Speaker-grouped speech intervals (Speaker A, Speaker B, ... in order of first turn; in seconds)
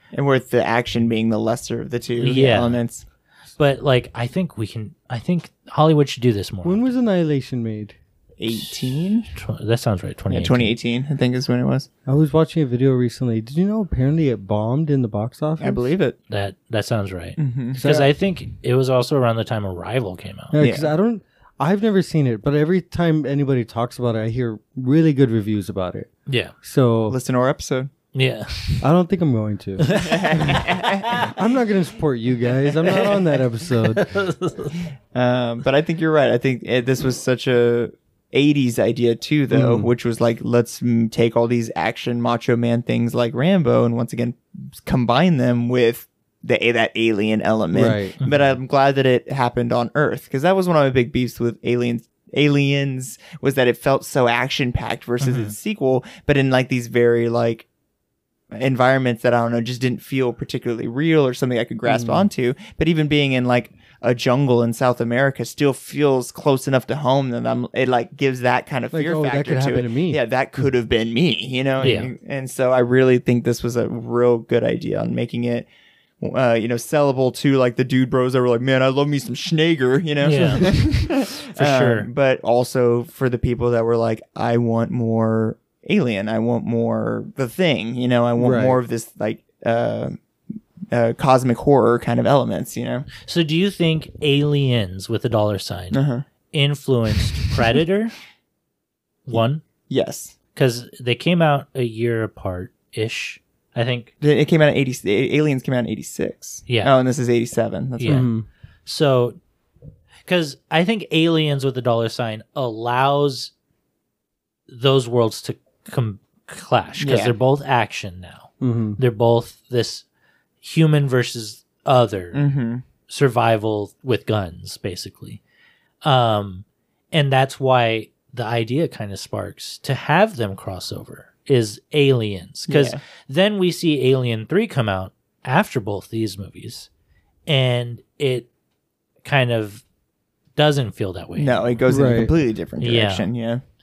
Speaker A: 0.1-3.0, 8.4-9.3, 10.3-11.9, 15.6-16.2, 17.4-17.9, 20.6-20.9, 27.1-27.9, 29.9-31.2, 35.1-57.7, 58.5-75.7, 76.2-90.2, 90.9-93.1, 95.9-96.2, 99.3-100.3, 104.2-108.3, 117.0-117.4, 122.3-122.8, 132.7-133.0, 141.4-143.6
Speaker B: 2.2-2.8, 3.6-6.9, 9.3-10.7, 16.3-20.6, 26.3-26.5, 28.1-28.9, 29.9-31.1, 33.9-34.8, 48.2-48.5, 55.2-55.5, 71.8-72.1, 80.2-82.1, 93.2-96.0, 96.5-98.1, 99.3-99.6, 100.5-104.1, 106.7-106.9, 108.0-108.3, 108.9-109.4, 110.3-113.5, 114.7-120.0, 120.6-122.4, 123.1-125.4, 126.0-136.9, 137.5-138.5, 139.2-139.8, 140.6-141.8, 142.8-143.3
Speaker C: 6.6-8.0, 12.1-15.8, 17.8-18.1, 20.5-26.1, 26.6-27.2, 28.8-34.1, 39.5-39.9, 47.7-48.1, 61.9-62.3, 68.9-70.2, 88.4-88.8, 108.1-108.5, 118.6-119.0, 141.9-142.3